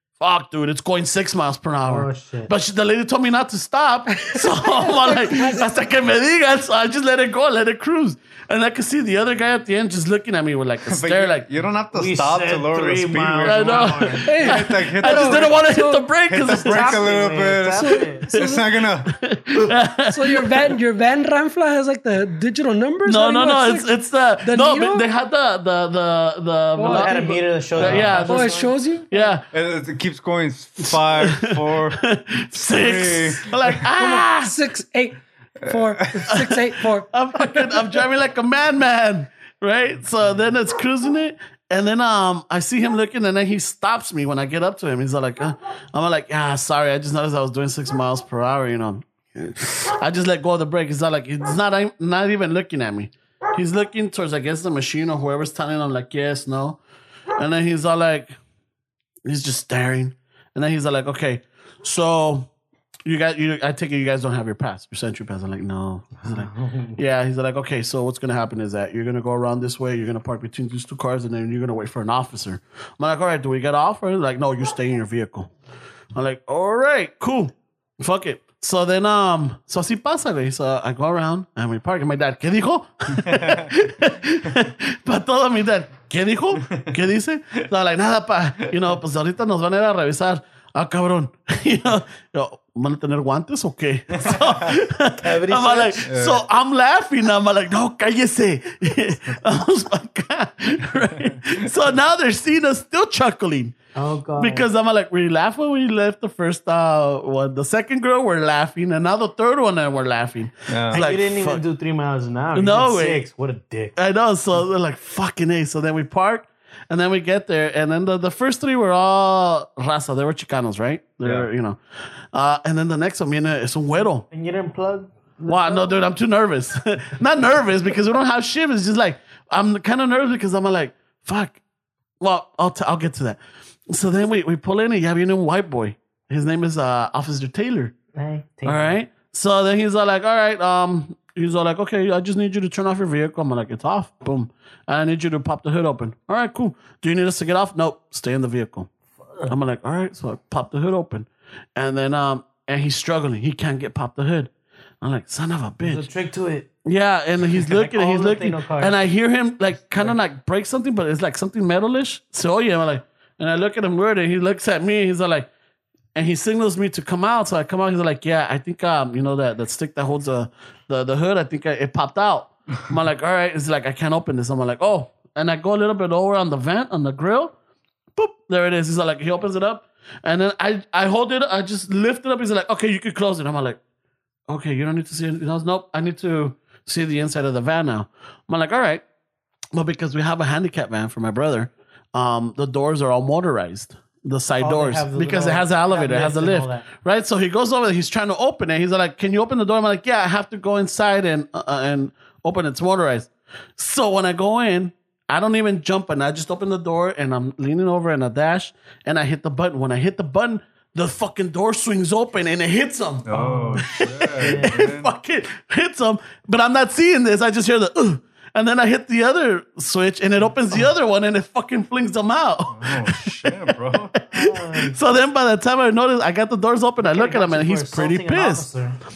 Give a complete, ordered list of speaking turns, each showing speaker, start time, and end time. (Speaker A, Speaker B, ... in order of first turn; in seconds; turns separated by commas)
Speaker A: 0.2-11.5, Speaker B: 1.9-2.5, Speaker C: 4.1-5.7, Speaker D: 10.9-15.6, Speaker B: 11.9-14.6, Speaker A: 13.4-17.1, Speaker C: 14.2-16.1, Speaker D: 16.3-19.1, Speaker B: 16.5-18.3, Speaker C: 17.8-18.7, Speaker A: 19.1-20.6, Speaker C: 20.1-25.1, Speaker A: 23.1-28.5, Speaker C: 26.8-27.3, Speaker B: 26.8-28.7, Speaker D: 27.8-28.2, Speaker C: 28.3-29.3, Speaker A: 29.1-29.5, Speaker D: 29.5-32.0, Speaker A: 31.2-34.6, Speaker D: 32.5-33.9, Speaker C: 34.0-37.7, Speaker D: 35.6-36.3, Speaker A: 36.3-56.8, Speaker A: 57.4-58.4, Speaker A: 59.3-62.5, Speaker A: 63.1-75.5, Speaker B: 66.2-67.0, Speaker A: 76.1-103.8, Speaker D: 83.2-83.7, Speaker B: 95.2-96.1, Speaker D: 96.1-96.4, Speaker B: 104.0-104.7, Speaker A: 104.4-111.6, Speaker D: 110.7-111.0, Speaker B: 110.9-114.0, Speaker A: 112.5-113.2, Speaker A: 114.0-121.8, Speaker D: 121.2-121.5, Speaker A: 122.3-124.3, Speaker B: 124.3-126.0, Speaker A: 125.5-131.6, Speaker A: 132.2-137.9, Speaker B: 138.1-138.9, Speaker A: 138.7-148.9, Speaker A: 149.5-156.1, Speaker B: 155.8-156.7, Speaker A: 156.8-165.5, Speaker B: 157.6-159.0, Speaker A: 166.2-177.5, Speaker A: 178.2-183.8, Speaker A: 184.5-189.0, Speaker A: 189.7-228.7, Speaker B: 194.6-196.9, Speaker D: 213.2-215.1, Speaker B: 213.3-214.8, Speaker D: 222.7-224.1, Speaker B: 224.3-225.0, Speaker B: 227.0-229.0